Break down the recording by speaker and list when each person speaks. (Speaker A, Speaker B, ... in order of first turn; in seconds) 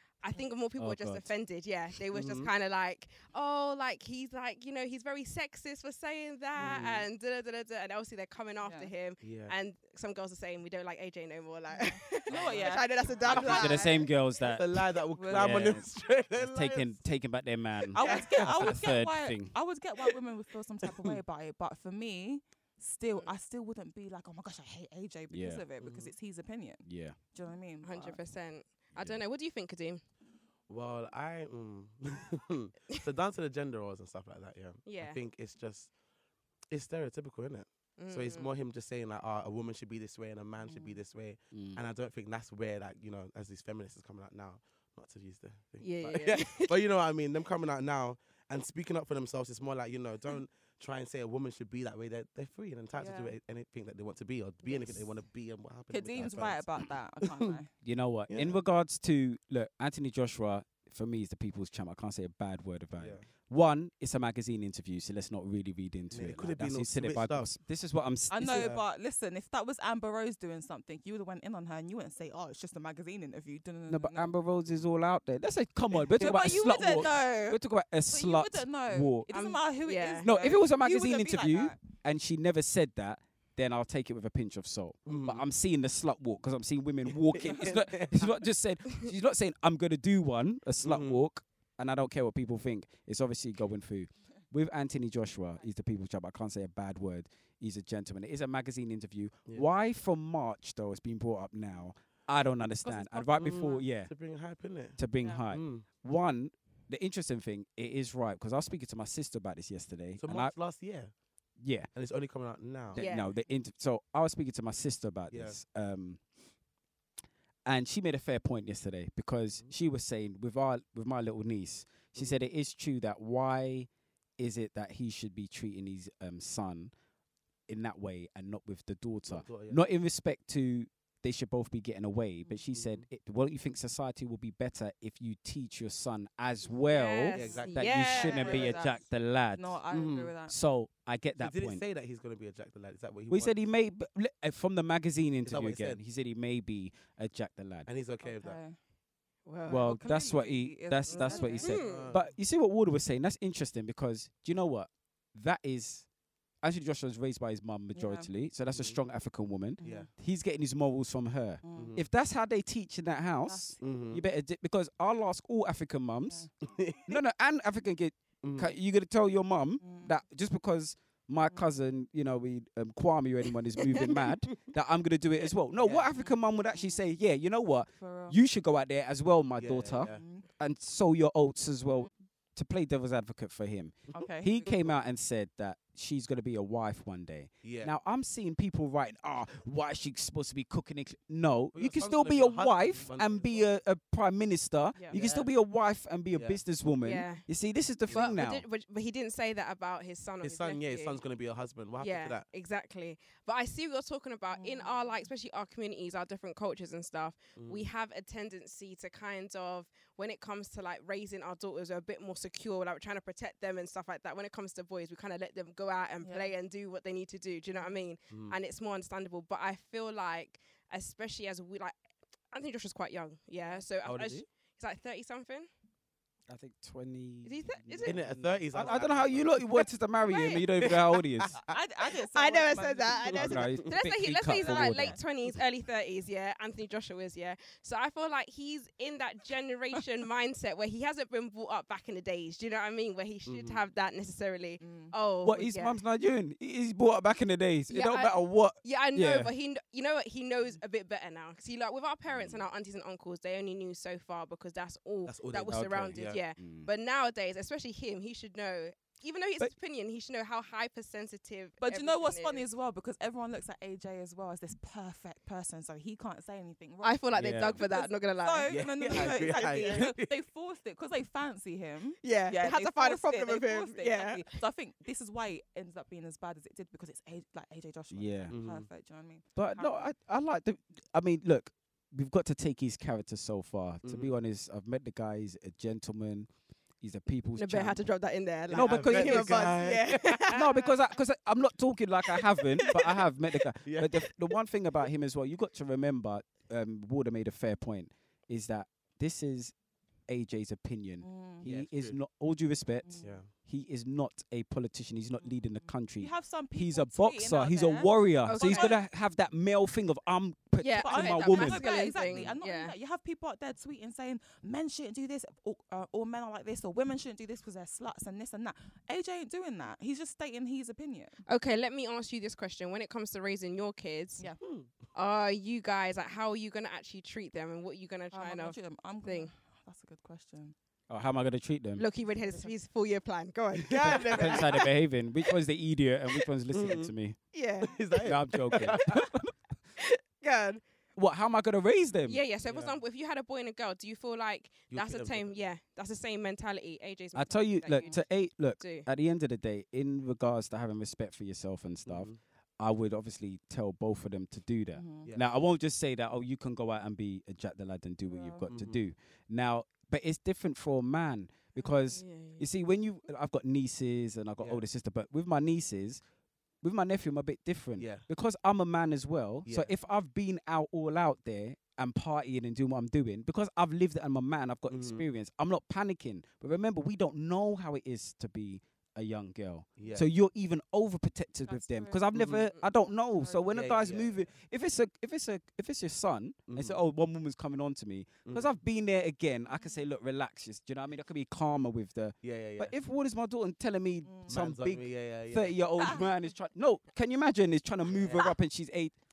Speaker A: 0.2-14.0, 27.8-30.0, 34.9-35.2, 38.0-38.5, 45.8-46.7, 79.3-80.3, 113.0-113.3, 136.9-138.8, 149.5-149.9, 151.1-152.1, 197.0-197.4, 198.1-201.2, 202.0-221.9, 222.5-225.7, 227.4-230.9, 232.3-246.0, 247.9-262.6, 267.0-270.1, 272.2-274.6, 287.6-290.9, 308.5-309.0, 310.8-312.9, 321.5-324.5, 325.1-329.5, 332.0-334.9, 337.5-338.0, 340.0-340.8, 342.3-348.2, 348.8-349.1, 362.1-362.7
Speaker B: 0.8-1.3, 13.3-19.5, 25.3-25.6, 26.9-27.2, 28.9-29.2, 41.5-41.8, 57.8-68.7, 73.9-79.3, 80.2-104.1, 105.0-110.5, 111.6-111.9, 113.0-116.2, 117.7-126.9, 127.7-139.8, 140.5-141.8, 143.3-147.9, 149.7-156.1, 156.6-166.5, 167.1-198.6, 226.5-231.6, 233.3-235.2, 245.4-249.5, 252.3-252.6, 255.7-256.9, 267.3-267.8, 278.1-278.6, 279.6-286.5, 287.0-288.0, 288.7-289.9, 290.4-299.7, 300.3-312.1, 331.1-332.0, 334.3-337.4, 338.2-339.5, 341.2-342.4, 347.4-366.2, 366.8-399.2
Speaker C: 2.1-2.5, 6.6-7.0, 9.2-9.6, 12.4-12.7, 13.3-13.8, 14.4-17.0, 18.0-18.9, 25.8-26.1, 30.7-35.9, 36.7-57.6, 58.3-58.6, 63.0-63.2, 66.1-67.5, 68.4-68.8, 76.1-76.4, 85.1-85.4, 87.2-88.3, 90.8-91.2, 103.4-105.0, 105.5-105.9, 110.2-111.1, 112.0-113.0, 115.3-115.6, 129.3-129.8, 132.7-133.1, 137.4-137.9, 139.9-140.3, 141.4-143.5, 145.4-146.0, 147.9-148.6, 151.7-152.3, 158.7-159.0, 159.8-160.1, 161.8-162.0, 163.8-164.2, 166.7-167.2, 168.4-168.7, 175.7-176.1, 179.6-180.2, 187.6-187.9, 191.7-193.7, 195.1-195.5, 198.1-198.4, 200.4-202.4, 207.6-207.9, 218.3-218.6, 224.0-224.4, 228.1-229.6, 230.9-231.8, 243.5-243.8, 255.3-256.4, 268.7-270.3, 278.5-278.9, 284.0-284.3, 288.7-290.6, 293.8-294.2, 301.6-302.2, 303.2-303.5, 312.2-312.5, 324.6-324.9, 333.8-334.7, 336.7-337.1, 337.8-339.3, 342.7-343.0, 344.9-345.6, 352.1-352.4, 358.7-359.0, 368.0-368.2, 374.9-375.2, 380.0-380.3, 382.3-382.7, 383.7-384.4, 386.7-387.0, 392.4-392.9, 394.5-395.8
Speaker D: 8.6-8.9, 11.7-13.9, 15.2-15.8, 17.9-28.2, 40.6-41.0, 53.0-53.4, 55.9-57.7, 68.3-74.3, 76.2-81.8, 102.8-103.8, 105.2-105.5, 137.4-140.6, 148.2-148.8, 149.7-151.8, 157.9-158.3, 159.8-160.1, 161.6-162.0, 163.4-163.8, 166.2-166.5, 169.8-170.2, 176.1-176.9, 178.0-178.4, 180.1-180.5, 184.1-185.0, 194.9-195.2, 204.5-205.0, 216.2-216.5, 231.6-233.8, 234.4-235.2, 244.8-245.1, 261.8-280.1, 301.2-301.6, 303.0-303.4, 305.5-309.0, 311.0-321.4, 328.3-330.8, 332.4-332.7, 354.9-355.3, 358.3-358.7, 381.7-382.6, 383.4-383.7, 389.7-390.0, 394.2-394.5